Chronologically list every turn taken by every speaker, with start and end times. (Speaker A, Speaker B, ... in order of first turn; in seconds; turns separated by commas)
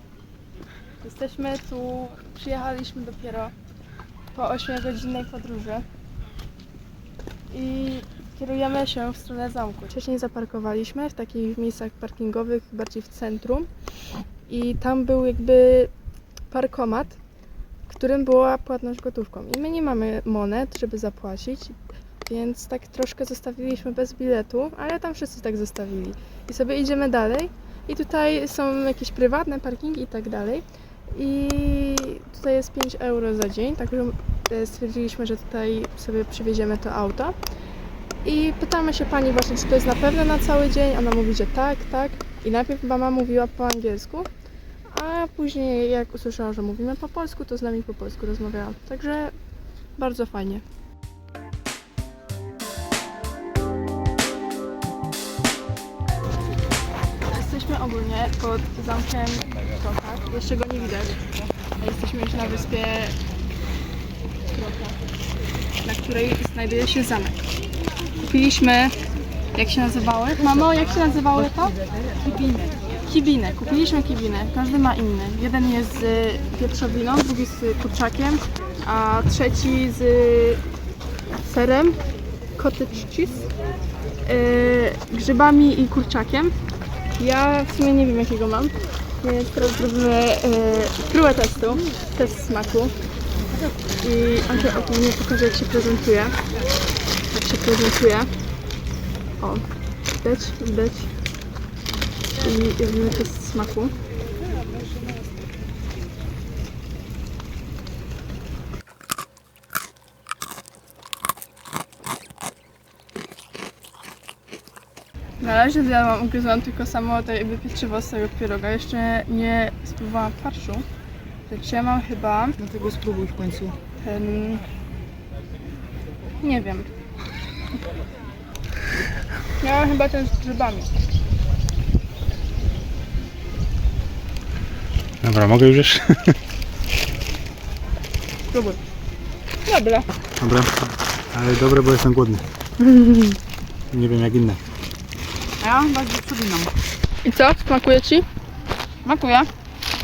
Speaker A: 1.0-3.5, Speaker A: 4.3-5.8, Speaker A: 7.5-13.7, Speaker A: 14.5-15.9, Speaker A: 16.5-17.2, Speaker A: 17.9-37.4, Speaker A: 38.2-44.3, Speaker A: 44.9-49.3, Speaker A: 50.0-50.6, Speaker A: 57.3-61.2, Speaker A: 61.8-63.1, Speaker A: 64.5-65.0, Speaker A: 65.8-67.4, Speaker A: 68.2-68.9, Speaker A: 69.5-71.8, Speaker A: 73.0-80.6, Speaker A: 81.4-82.0, Speaker A: 82.5-83.5, Speaker A: 84.2-86.5, Speaker A: 87.2-92.9, Speaker A: 94.0-96.4, Speaker A: 97.3-98.3, Speaker A: 99.4-99.7, Speaker A: 100.2-101.1, Speaker A: 102.4-103.9, Speaker A: 115.4-120.8, Speaker A: 121.5-122.6, Speaker B: 122.6-123.8, Speaker A: 124.0-124.6, Speaker A: 126.4-126.9, Speaker A: 129.6-130.9, Speaker C: 135.2-136.4, Speaker A: 139.7-140.1, Speaker C: 140.4-142.4, Speaker C: 143.9-144.6, Speaker B: 145.6-146.7, Speaker A: 147.2-148.2, Speaker B: 149.0-149.5